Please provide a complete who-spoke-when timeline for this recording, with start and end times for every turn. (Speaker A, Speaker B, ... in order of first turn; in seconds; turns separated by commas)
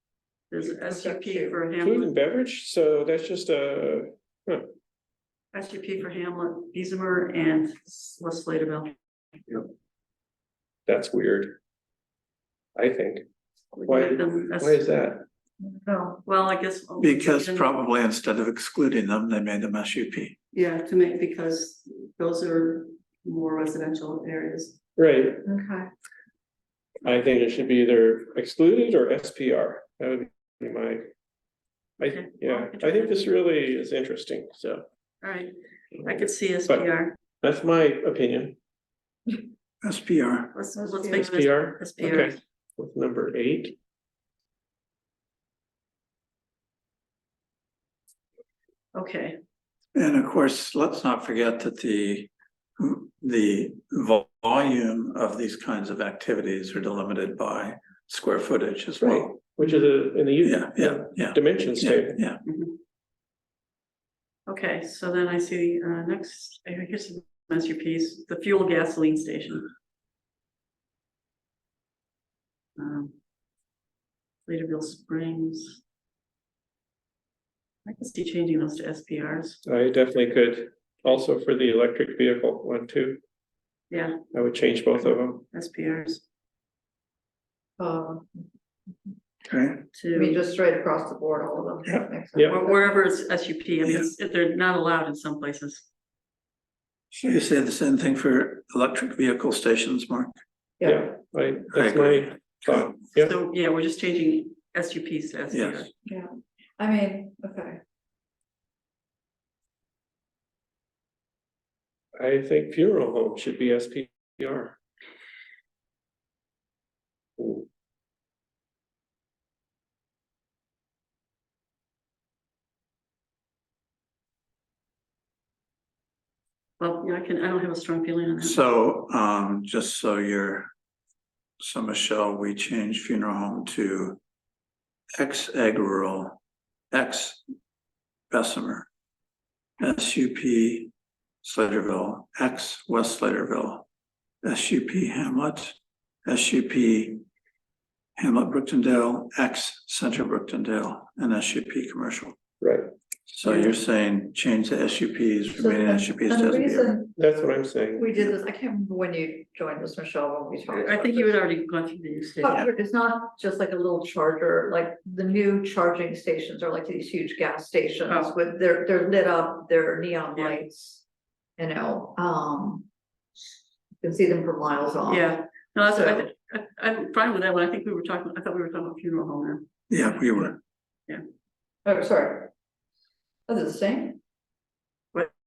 Speaker A: 0.5-2.1, Speaker B: 0.6-1.6, Speaker C: 1.8-4.7, Speaker A: 5.5-8.9, Speaker C: 10.8-11.6, Speaker C: 12.7-13.2, Speaker A: 13.7-14.8, Speaker C: 13.8-15.3, Speaker B: 15.6-16.2, Speaker A: 16.2-17.7, Speaker D: 17.0-20.4, Speaker A: 20.5-24.8, Speaker C: 24.9-25.4, Speaker B: 25.4-25.9, Speaker C: 27.0-31.1, Speaker C: 32.0-34.8, Speaker A: 32.0-33.3, Speaker A: 35.2-35.5, Speaker C: 35.9-36.9, Speaker A: 36.0-37.2, Speaker C: 37.4-38.6, Speaker D: 39.8-40.5, Speaker A: 40.5-42.4, Speaker B: 40.8-41.1, Speaker C: 41.1-43.8, Speaker A: 48.9-49.4, Speaker D: 49.9-59.4, Speaker C: 59.0-62.2, Speaker D: 60.4-62.4, Speaker A: 62.4-62.7, Speaker A: 64.5-69.7, Speaker A: 72.8-73.1, Speaker A: 74.5-75.8, Speaker A: 77.8-79.6, Speaker C: 79.6-83.2, Speaker A: 83.9-84.2, Speaker C: 84.3-85.5, Speaker A: 85.5-86.2, Speaker B: 87.8-88.4, Speaker D: 89.5-89.9, Speaker A: 89.9-90.4, Speaker B: 90.1-92.9, Speaker A: 92.5-95.8, Speaker D: 97.1-100.3, Speaker C: 100.8-103.3, Speaker D: 101.7-103.1, Speaker A: 103.2-105.9, Speaker D: 105.5-105.9, Speaker B: 106.1-107.8, Speaker C: 112.2-114.8, Speaker C: 117.4-117.6, Speaker A: 126.8-128.6, Speaker D: 128.4-130.7, Speaker D: 131.6-134.2, Speaker D: 135.2-136.4, Speaker D: 136.9-137.4, Speaker D: 138.3-138.9, Speaker D: 139.8-140.9, Speaker D: 141.4-143.9, Speaker D: 144.4-147.2, Speaker D: 148.2-152.4, Speaker C: 152.6-152.9, Speaker D: 153.3-156.9, Speaker B: 153.4-153.7, Speaker B: 155.6-157.2, Speaker C: 157.2-158.1, Speaker B: 157.9-161.4, Speaker A: 160.7-162.7, Speaker B: 162.4-171.0, Speaker A: 168.1-168.3, Speaker A: 170.3-170.6, Speaker B: 171.6-172.9, Speaker B: 174.0-176.3, Speaker A: 175.0-179.7, Speaker D: 179.9-180.6, Speaker A: 180.2-180.5, Speaker B: 181.8-182.5, Speaker B: 183.5-184.2